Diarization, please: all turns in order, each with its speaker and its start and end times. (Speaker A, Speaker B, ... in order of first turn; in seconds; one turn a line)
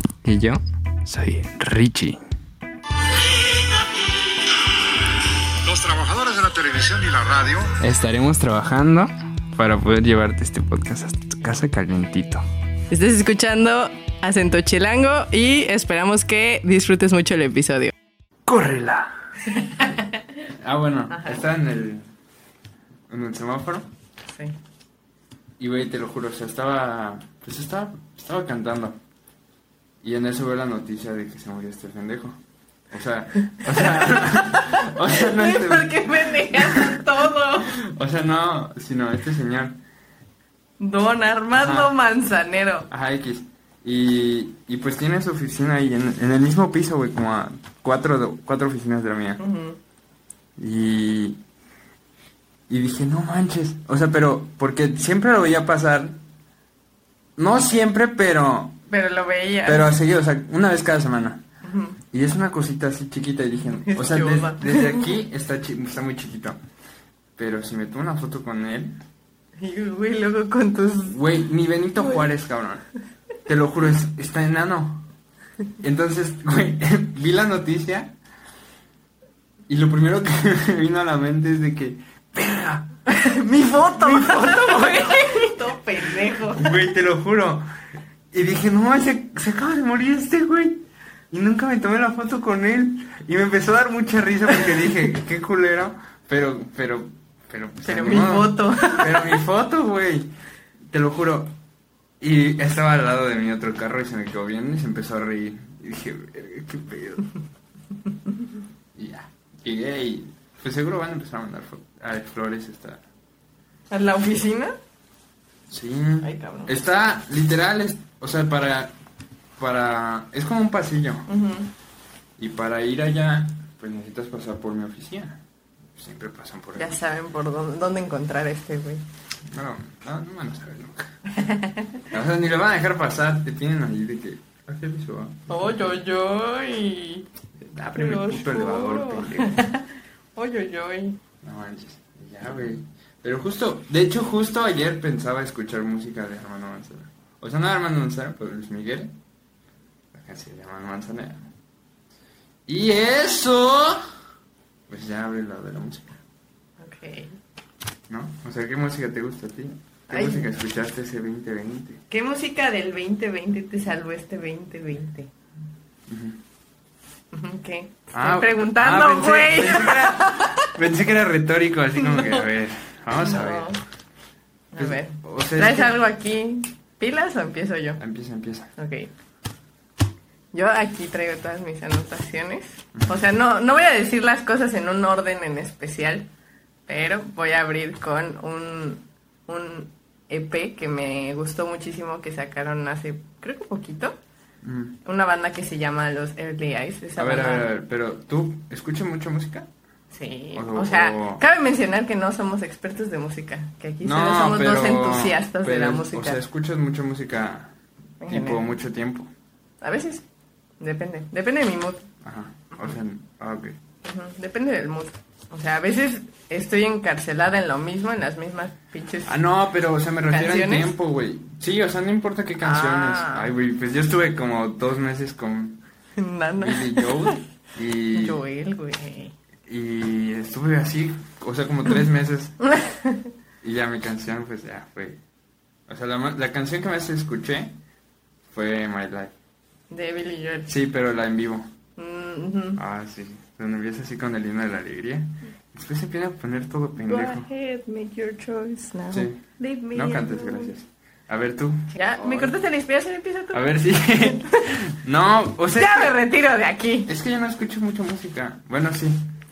Speaker A: 0.2-2.2
Speaker B: 5.6-7.8
Speaker A: 7.8-12.4
Speaker C: 12.9-17.9
Speaker A: 18.4-19.1
Speaker C: 19.5-20.2
Speaker A: 20.6-22.1
Speaker C: 21.1-21.4
Speaker A: 23.1-23.9
Speaker A: 25.6-29.0
Speaker A: 30.0-32.4
Speaker A: 32.9-37.1
Speaker C: 33.7-37.7
Speaker A: 37.7-39.8
Speaker C: 40.8-42.9
Speaker A: 41.6-41.9
Speaker A: 42.9-49.4
Speaker C: 49.4-49.8
Speaker A: 50.6-51.4
Speaker A: 52.7-56.2
Speaker A: 57.4-58.8
Speaker C: 58.9-59.9
Speaker A: 59.6-61.4
Speaker C: 61.6-62.0
Speaker A: 62.1-66.6
Speaker C: 63.8-65.0
Speaker A: 67.4-69.0
Speaker C: 69.6-71.2
Speaker A: 71.1-72.8
Speaker A: 73.5-75.1
Speaker A: 75.8-78.2
Speaker A: 79.7-82.9
Speaker C: 83.1-86.8
Speaker A: 83.5-85.5
Speaker A: 86.3-87.6
Speaker A: 88.3-100.3
Speaker C: 97.8-99.4
Speaker A: 100.9-101.5
Speaker A: 102.2-107.3
Speaker A: 108.9-113.0
Speaker C: 113.9-114.7
Speaker A: 115.7-118.9
Speaker C: 116.2-116.7
Speaker A: 119.6-121.3
Speaker C: 121.3-121.7
Speaker A: 122.4-125.4
Speaker A: 125.9-127.0
Speaker C: 126.8-129.0
Speaker A: 129.5-131.2
Speaker C: 131.4-132.0
Speaker A: 132.1-136.0
Speaker C: 135.5-137.3
Speaker A: 137.6-139.6
Speaker C: 137.9-141.2
Speaker A: 141.4-149.1
Speaker A: 150.1-151.5
Speaker A: 152.7-154.0
Speaker A: 154.9-156.2
Speaker C: 156.8-157.3
Speaker A: 158.1-162.0
Speaker C: 160.1-160.5
Speaker C: 162.1-165.3
Speaker A: 166.1-166.4
Speaker C: 167.3-170.7
Speaker A: 168.1-173.7
Speaker C: 171.9-172.5
Speaker C: 173.2-173.8
Speaker C: 174.7-178.0
Speaker A: 174.8-175.9
Speaker A: 178.0-178.7
Speaker C: 178.8-179.1
Speaker C: 180.5-186.3
Speaker C: 186.9-194.2
Speaker A: 194.6-195.0
Speaker C: 195.0-197.7
Speaker A: 197.2-199.7
Speaker C: 200.1-206.4
Speaker A: 200.6-201.4
Speaker A: 204.0-207.7
Speaker C: 208.2-208.7
Speaker A: 208.3-209.3
Speaker C: 209.8-210.2
Speaker C: 210.8-212.0
Speaker A: 212.2-213.8
Speaker C: 214.0-219.3
Speaker A: 219.2-225.8
Speaker C: 220.3-220.9
Speaker C: 222.6-223.5
Speaker C: 226.2-227.4
Speaker A: 226.6-228.4
Speaker C: 228.1-229.3
Speaker A: 229.7-232.6
Speaker C: 232.6-233.2
Speaker A: 233.6-235.2
Speaker A: 235.9-237.7
Speaker A: 238.5-239.3
Speaker C: 239.9-240.7
Speaker A: 240.7-241.7
Speaker C: 242.0-242.8
Speaker A: 242.8-247.4
Speaker C: 247.0-250.7
Speaker A: 249.1-249.4
Speaker A: 249.9-252.5
Speaker C: 251.9-254.7
Speaker A: 253.5-256.1
Speaker C: 255.8-257.1
Speaker A: 257.1-259.2